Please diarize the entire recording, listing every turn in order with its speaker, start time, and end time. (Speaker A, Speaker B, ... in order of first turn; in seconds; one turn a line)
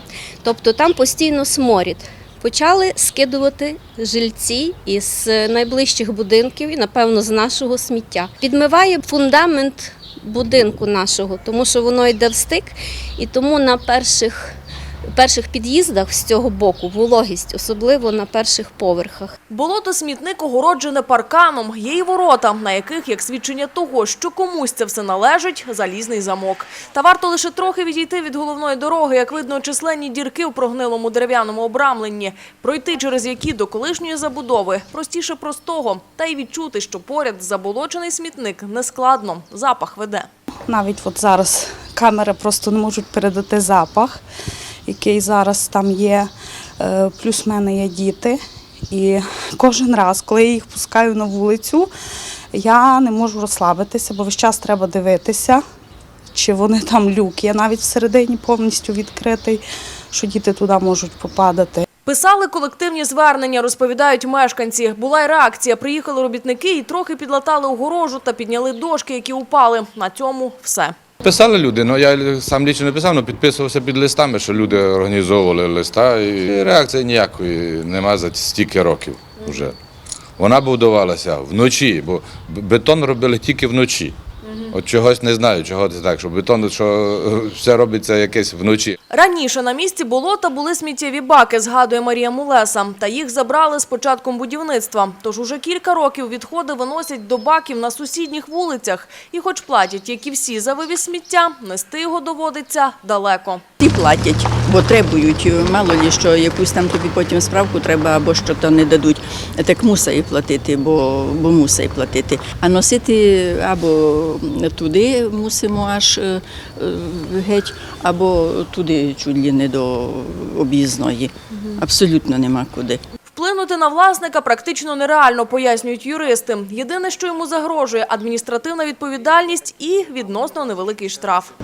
Speaker A: 0.4-14.5
Speaker A: 15.1-19.4
Speaker B: 19.5-40.3
Speaker C: 40.7-44.2
Speaker C: 44.9-48.4
Speaker C: 48.9-51.9
Speaker C: 52.5-55.6
Speaker C: 56.3-61.9
Speaker B: 62.0-70.9
Speaker D: 71.2-79.7
Speaker D: 80.4-84.2
Speaker D: 84.7-89.0
Speaker B: 89.1-103.6
Speaker E: 103.8-123.0
Speaker B: 123.3-131.5